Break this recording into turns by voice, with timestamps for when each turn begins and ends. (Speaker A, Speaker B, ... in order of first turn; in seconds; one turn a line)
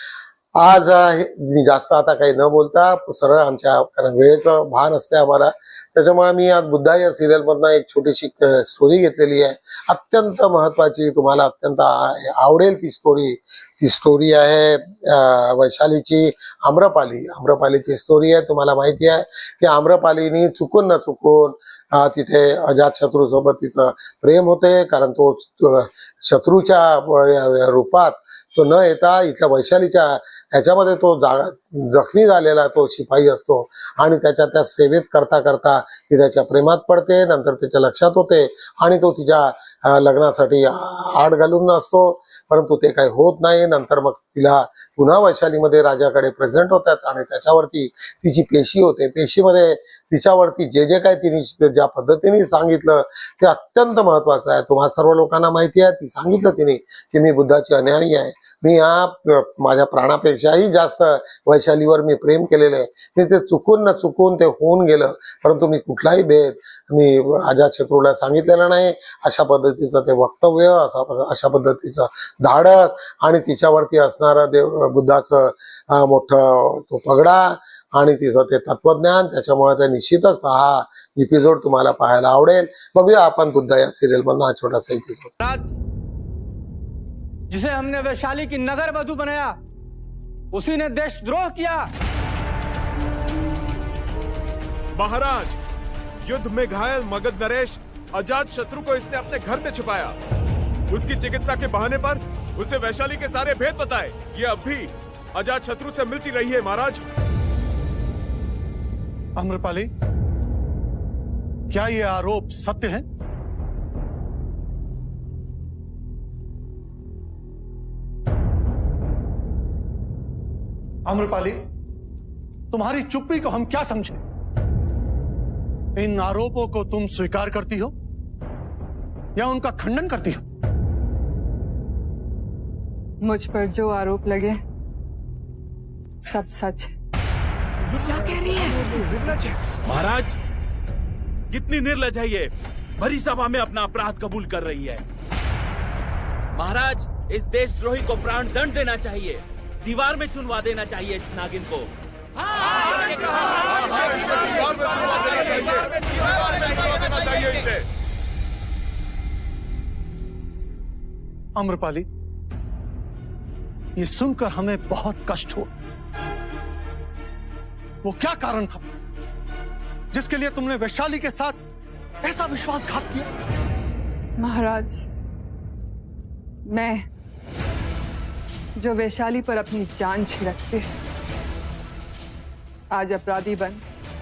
Speaker A: 0.6-85.3
Speaker B: 85.4-85.7
Speaker B: 87.5-89.5
Speaker B: 90.5-91.8
Speaker C: 94.9-95.6
Speaker C: 96.2-100.2
Speaker C: 100.9-107.0
Speaker D: 109.4-109.9
Speaker D: 111.7-113.0
Speaker D: 121.1-121.7
Speaker D: 122.7-124.2
Speaker D: 126.0-127.9
Speaker D: 129.4-130.4
Speaker E: 133.2-134.6
Speaker E: 136.2-136.9
Speaker F: 137.9-140.4
Speaker F: 141.5-145.0
Speaker F: 146.6-151.9
Speaker C: 153.7-157.8
Speaker D: 161.6-162.1
Speaker D: 164.0-165.7
Speaker D: 168.0-168.8
Speaker D: 170.1-171.6
Speaker D: 172.2-173.3
Speaker E: 174.4-175.1
Speaker E: 176.7-177.1
Speaker E: 178.8-180.9
Speaker E: 182.9-183.8